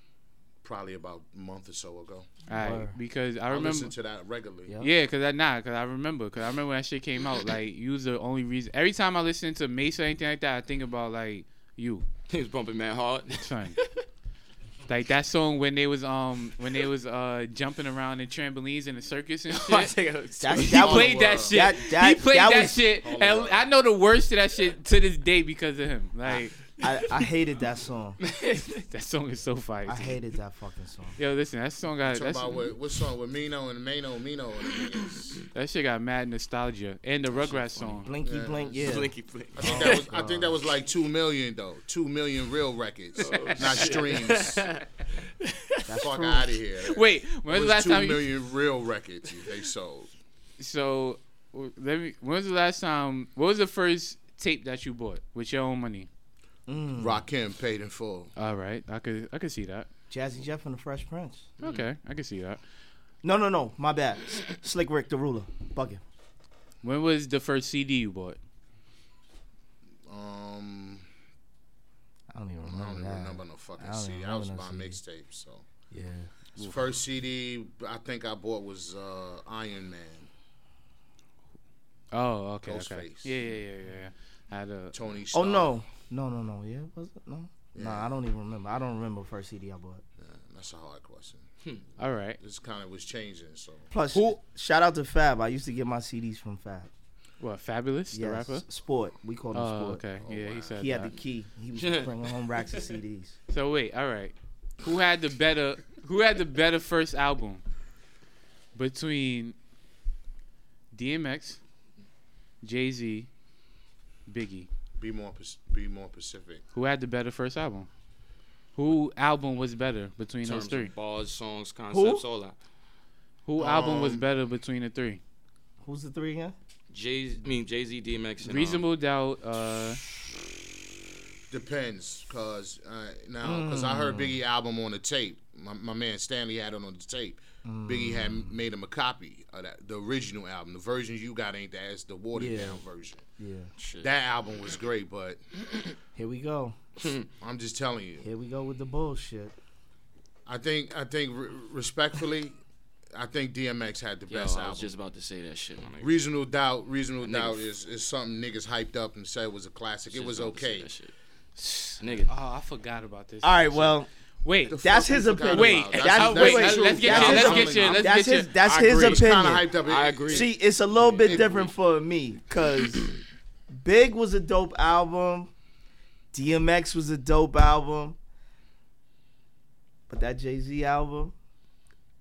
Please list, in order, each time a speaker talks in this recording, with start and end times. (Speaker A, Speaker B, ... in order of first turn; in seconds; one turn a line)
Speaker A: 0.6-2.3
Speaker B: 2.5-3.9
Speaker C: 2.5-2.9
Speaker A: 3.5-4.7
Speaker B: 4.8-12.1
Speaker D: 12.3-14.0
Speaker B: 13.4-13.8
Speaker B: 14.9-19.9
Speaker D: 19.5-21.0
Speaker C: 20.4-22.9
Speaker B: 20.5-26.5
Speaker A: 20.6-21.7
Speaker A: 23.0-23.7
Speaker C: 26.3-28.2
Speaker D: 28.2-28.8
Speaker B: 28.9-30.2
Speaker C: 29.9-31.2
Speaker B: 31.2-32.6
Speaker A: 32.0-35.4
Speaker B: 35.5-38.1
Speaker D: 37.3-38.0
Speaker C: 38.0-40.6
Speaker A: 38.2-39.0
Speaker D: 38.8-40.0
Speaker A: 39.5-44.7
Speaker D: 43.2-45.9
Speaker B: 43.2-44.0
Speaker C: 45.9-46.5
Speaker A: 46.0-50.1
Speaker B: 46.8-48.2
Speaker B: 50.6-56.1
Speaker C: 56.7-57.2
Speaker A: 57.0-58.3
Speaker B: 58.4-59.9
Speaker C: 60.1-61.5
Speaker B: 61.6-62.6
Speaker C: 63.2-66.0
Speaker B: 66.8-68.4
Speaker A: 70.1-71.0
Speaker C: 72.3-75.0
Speaker A: 72.6-75.7
Speaker C: 75.9-76.4
Speaker A: 76.6-80.3
Speaker B: 82.1-84.9
Speaker A: 82.6-83.4
Speaker A: 84.9-85.7
Speaker C: 85.3-90.0
Speaker A: 87.7-88.1
Speaker A: 90.2-91.4
Speaker B: 92.0-92.4
Speaker A: 92.4-93.9
Speaker C: 93.9-96.9
Speaker B: 97.4-98.6
Speaker C: 98.1-100.0
Speaker B: 99.5-101.2
Speaker A: 100.2-100.9
Speaker C: 100.8-103.3
Speaker D: 101.7-103.0
Speaker B: 103.5-107.6
Speaker B: 108.7-109.5
Speaker B: 110.9-111.6
Speaker B: 112.6-113.3
Speaker B: 114.3-114.7
Speaker A: 115.0-116.6
Speaker B: 116.7-117.9
Speaker B: 118.8-120.9
Speaker D: 120.4-122.5
Speaker C: 121.9-122.2
Speaker B: 123.5-125.2
Speaker A: 123.6-124.2
Speaker C: 125.8-126.5
Speaker D: 126.9-128.8
Speaker B: 128.4-130.0
Speaker A: 131.5-143.2
Speaker C: 133.4-134.3
Speaker C: 137.6-138.5
Speaker C: 142.3-142.8
Speaker C: 143.4-143.7
Speaker D: 143.8-144.1
Speaker A: 144.0-145.4
Speaker C: 146.1-146.8
Speaker D: 147.0-147.3
Speaker A: 147.4-148.3
Speaker C: 148.2-149.5
Speaker A: 150.4-152.6
Speaker A: 153.1-154.9
Speaker D: 154.3-156.1
Speaker A: 156.0-160.9
Speaker D: 157.2-157.6
Speaker D: 160.1-161.1
Speaker B: 161.6-164.8
Speaker D: 162.0-162.3
Speaker C: 163.4-164.1
Speaker A: 164.7-171.7
Speaker C: 164.8-169.7
Speaker B: 165.4-168.5
Speaker D: 166.8-168.1
Speaker D: 168.9-169.3
Speaker D: 169.8-171.7
Speaker C: 170.3-173.2
Speaker C: 173.8-175.5
Speaker C: 176.3-178.2
Speaker C: 180.1-181.3